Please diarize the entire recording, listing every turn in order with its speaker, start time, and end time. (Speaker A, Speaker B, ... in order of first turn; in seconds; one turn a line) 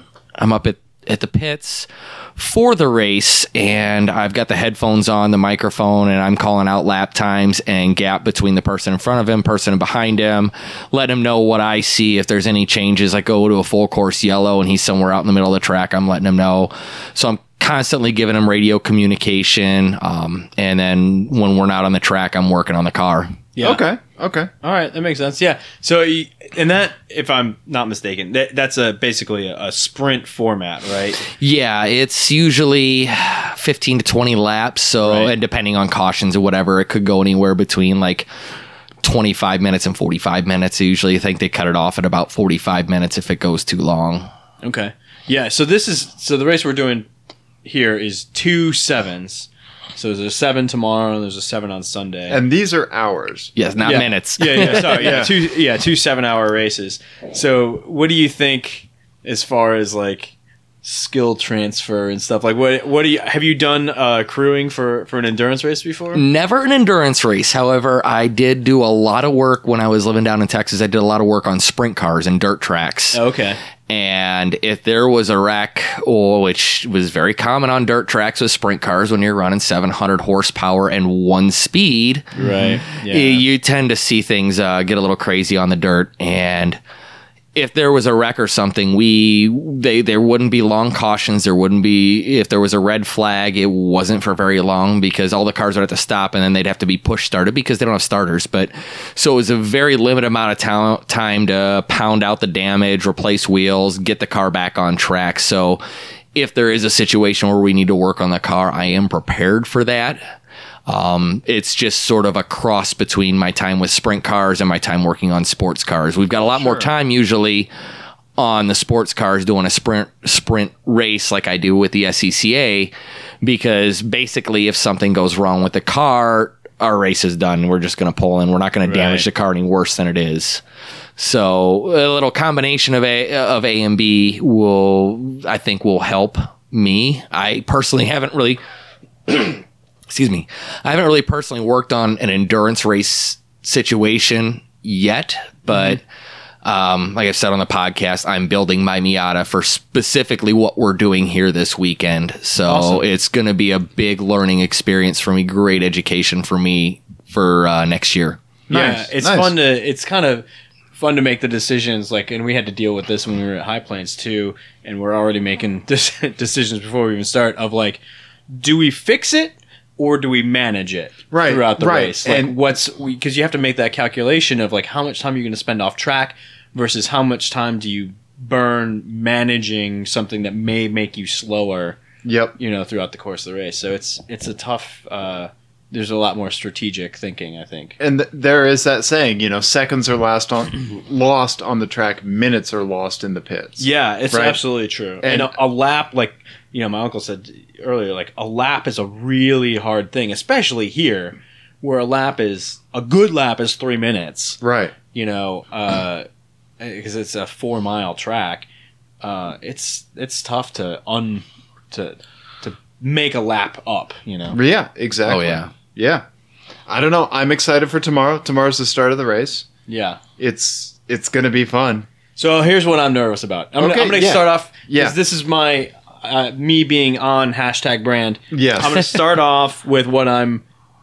Speaker A: 0.4-23.4
Speaker B: 23.5-23.8
Speaker C: 23.6-24.5
Speaker B: 24.6-31.2
Speaker A: 31.3-38.3
Speaker B: 35.0-35.3
Speaker A: 39.0-44.3
Speaker B: 44.6-47.1
Speaker B: 47.6-52.4
Speaker C: 52.3-53.5
Speaker A: 53.6-55.2
Speaker B: 53.8-66.2
Speaker C: 54.6-55.3
Speaker A: 66.1-73.2
Speaker B: 73.1-73.6
Speaker A: 73.9-86.8
Speaker B: 82.4-83.4
Speaker A: 87.5-105.8
Speaker A: 106.3-110.2
Speaker A: 110.9-117.7
Speaker C: 116.5-116.9
Speaker A: 118.4-130.6
Speaker B: 128.8-129.2
Speaker A: 131.2-138.6
Speaker A: 139.3-146.0
Speaker B: 145.7-146.0
Speaker A: 146.6-158.4
Speaker B: 152.7-153.0
Speaker C: 158.7-159.5
Speaker B: 158.7-168.0
Speaker B: 168.5-182.0
Speaker C: 171.3-172.6
Speaker C: 182.2-182.5
Speaker B: 182.6-188.0
Speaker C: 188.0-194.6
Speaker B: 193.8-204.6
Speaker C: 195.2-195.5
Speaker C: 204.6-204.9
Speaker B: 205.1-206.2
Speaker B: 206.8-208.7
Speaker B: 209.2-214.6
Speaker C: 214.5-216.2
Speaker A: 215.3-215.7
Speaker C: 216.9-219.7
Speaker B: 219.9-220.2
Speaker C: 220.4-222.1
Speaker B: 222.3-230.6
Speaker C: 223.8-225.2
Speaker C: 228.5-229.1